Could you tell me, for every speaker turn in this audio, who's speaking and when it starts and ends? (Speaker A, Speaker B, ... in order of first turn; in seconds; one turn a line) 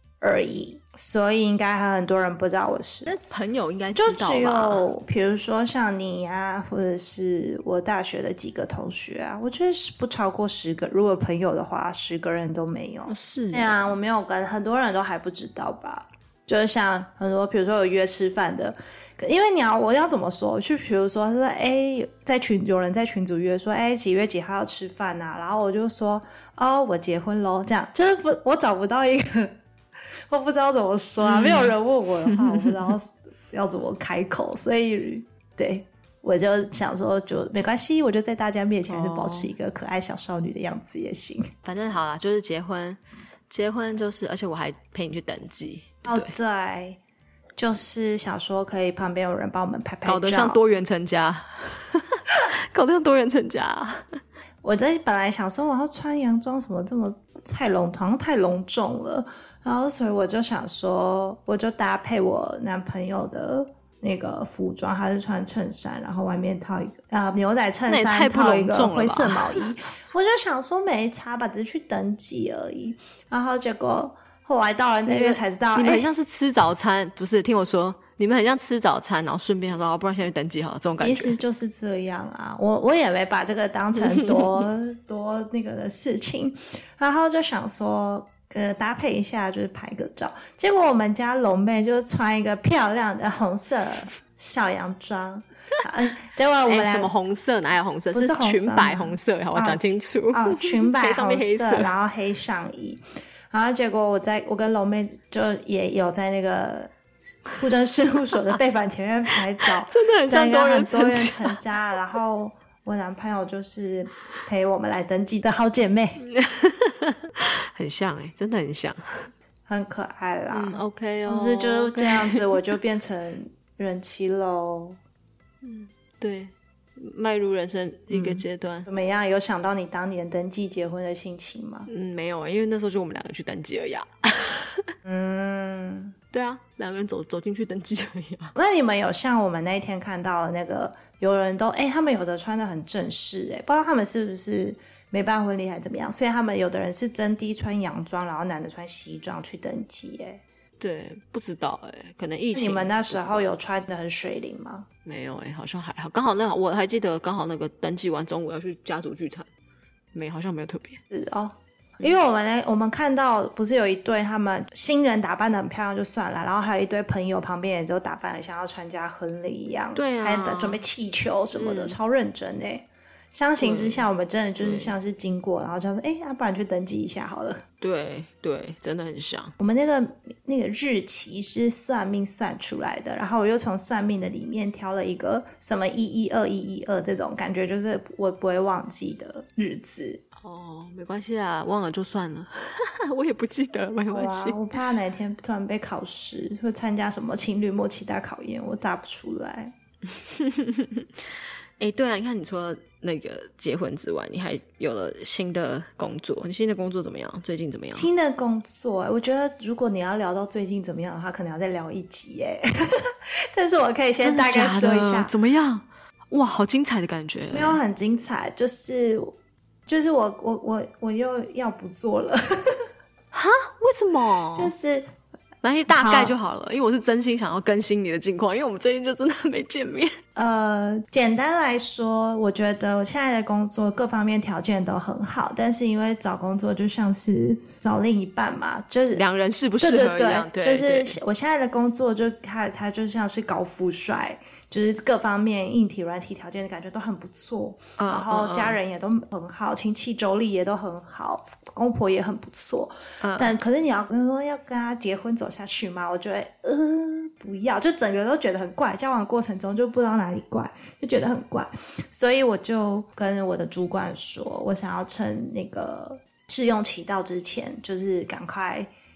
Speaker A: 0.2-3.1
Speaker B: 3.0-4.9
Speaker A: 3.9-29.6
Speaker B: 13.1-13.8
Speaker A: 30.3-41.5
Speaker B: 31.2-32.7
Speaker B: 38.9-39.5
Speaker B: 41.6-46.4
Speaker A: 46.0-47.0
Speaker A: 47.6-50.6
Speaker B: 50.0-54.2
Speaker A: 54.6-76.1
Speaker B: 67.9-69.6
Speaker B: 75.1-81.4
Speaker A: 81.0-97.1
Speaker B: 96.7-101.9
Speaker A: 98.1-106.9
Speaker A: 107.5-116.2
Speaker B: 109.7-111.6
Speaker B: 116.2-119.3
Speaker A: 119.7-125.0
Speaker B: 120.5-122.6
Speaker B: 125.6-128.9
Speaker A: 128.1-131.9
Speaker B: 131.9-134.9
Speaker A: 135.0-136.1
Speaker B: 136.3-138.5
Speaker A: 138.6-150.4
Speaker B: 150.8-153.5
Speaker A: 152.5-154.9
Speaker B: 155.1-159.5
Speaker B: 160.1-161.0
Speaker A: 161.1-177.6
Speaker B: 169.9-170.8
Speaker B: 171.5-172.0
Speaker B: 173.6-174.1
Speaker B: 174.6-174.9
Speaker B: 177.8-179.6
Speaker A: 179.6-190.2
Speaker B: 190.3-194.6
Speaker A: 194.1-199.7
Speaker B: 200.1-201.1
Speaker B: 201.8-208.1
Speaker A: 207.9-215.3
Speaker B: 214.2-217.8
Speaker A: 217.5-219.3
Speaker A: 219.9-222.8
Speaker B: 223.3-224.7
Speaker A: 224.5-225.1
Speaker B: 225.6-230.2
Speaker A: 225.9-226.3
Speaker A: 230.3-239.2
Speaker B: 239.1-241.2
Speaker A: 239.8-268.9
Speaker B: 248.0-248.8
Speaker B: 253.2-253.6